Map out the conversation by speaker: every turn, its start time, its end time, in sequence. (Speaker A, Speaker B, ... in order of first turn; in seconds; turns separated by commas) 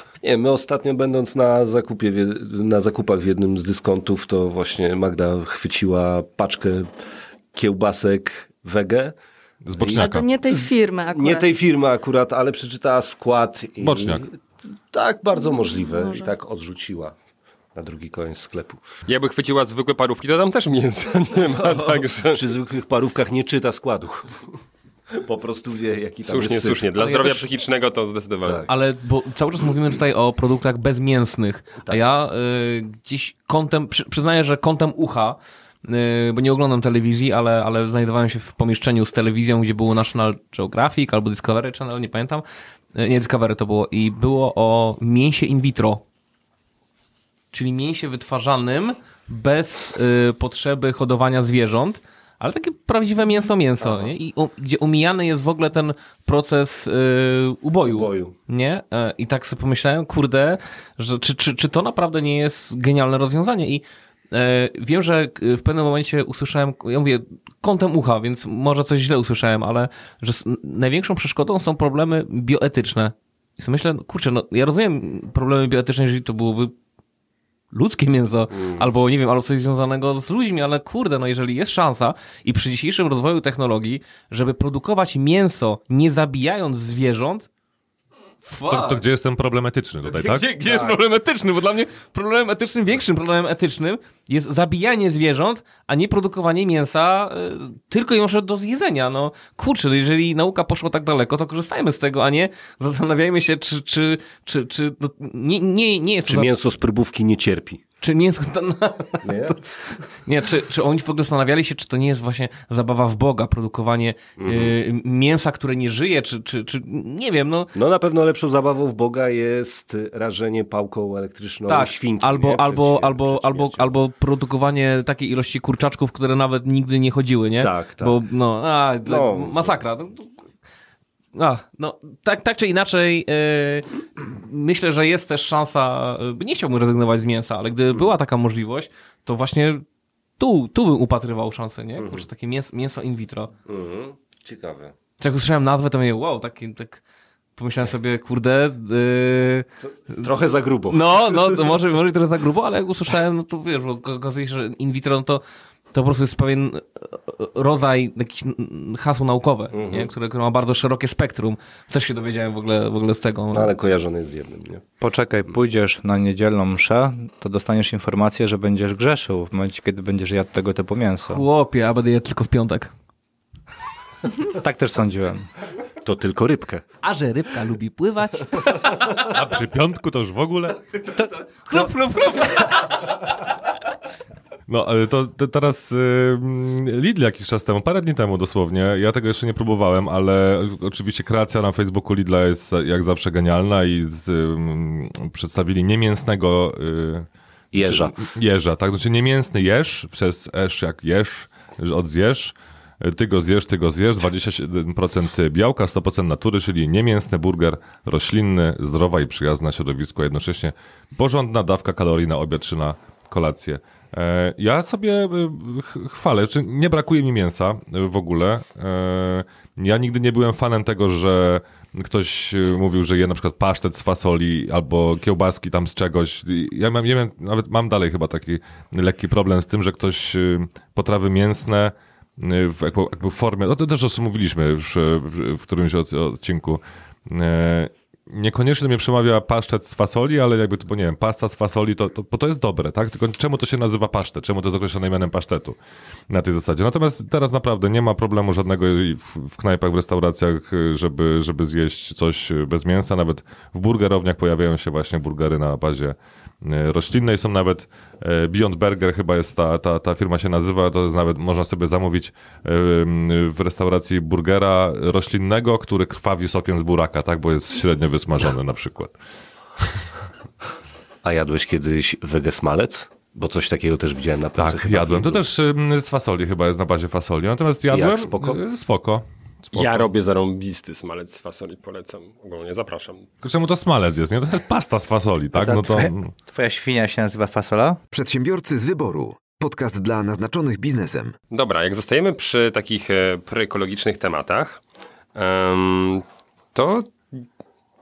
Speaker A: 0.2-6.9, Speaker A: 7.5-9.1, Speaker B: 9.6-10.3, Speaker C: 9.8-11.5, Speaker A: 10.6-14.3, Speaker B: 13.8-14.2, Speaker A: 14.9-17.1, Speaker C: 15.9-16.3, Speaker A: 17.7-18.8, Speaker D: 19.1-22.4, Speaker A: 21.5-24.4, Speaker A: 25.1-26.9, Speaker D: 26.2-28.7, Speaker E: 26.9-27.5, Speaker A: 28.4-28.7, Speaker E: 28.7-42.4, Speaker E: 42.9-46.0, Speaker E: 47.5-76.7, Speaker A: 53.8-54.1, Speaker A: 57.9-58.3, Speaker E: 77.7-87.5, Speaker A: 78.5-78.9, Speaker E: 88.4-89.0, Speaker B: 88.7-90.5, Speaker E: 90.0-106.5, Speaker A: 90.7-90.9, Speaker A: 106.2-107.8, Speaker E: 108.0-109.6, Speaker A: 109.2-109.6, Speaker E: 110.2-117.7, Speaker A: 114.4-114.7, Speaker A: 117.7-123.9, Speaker E: 121.7-130.3, Speaker A: 127.6-128.2, Speaker A: 129.0-129.7, Speaker E: 131.3-139.8, Speaker E: 140.4-143.5, Speaker A: 142.0-142.2, Speaker A: 143.7-144.9, Speaker E: 145.2-147.0, Speaker E: 147.6-150.3, Speaker A: 149.8-151.2, Speaker E: 150.9-155.4, Speaker E: 155.9-163.7, Speaker A: 159.7-160.1, Speaker A: 163.5-164.8, Speaker F: 165.0-171.4, Speaker E: 171.2-172.9, Speaker F: 174.5-175.5, Speaker A: 176.0-176.8, Speaker E: 177.0-179.0, Speaker B: 179.3-180.8, Speaker E: 181.6-183.1, Speaker B: 184.7-197.3, Speaker A: 197.7-198.2, Speaker B: 197.8-245.8, Speaker B: 246.3-269.1, Speaker B: 269.8-270.0, Speaker A: 271.2-275.4, Speaker B: 274.6-280.1, Speaker A: 277.9-278.6, Speaker D: 279.7-283.2, Speaker B: 283.4-286.3, Speaker F: 285.6-288.0, Speaker G: 288.1-291.3, Speaker D: 291.5-294.8, Speaker D: 295.3-296.2, Speaker D: 296.7-297.4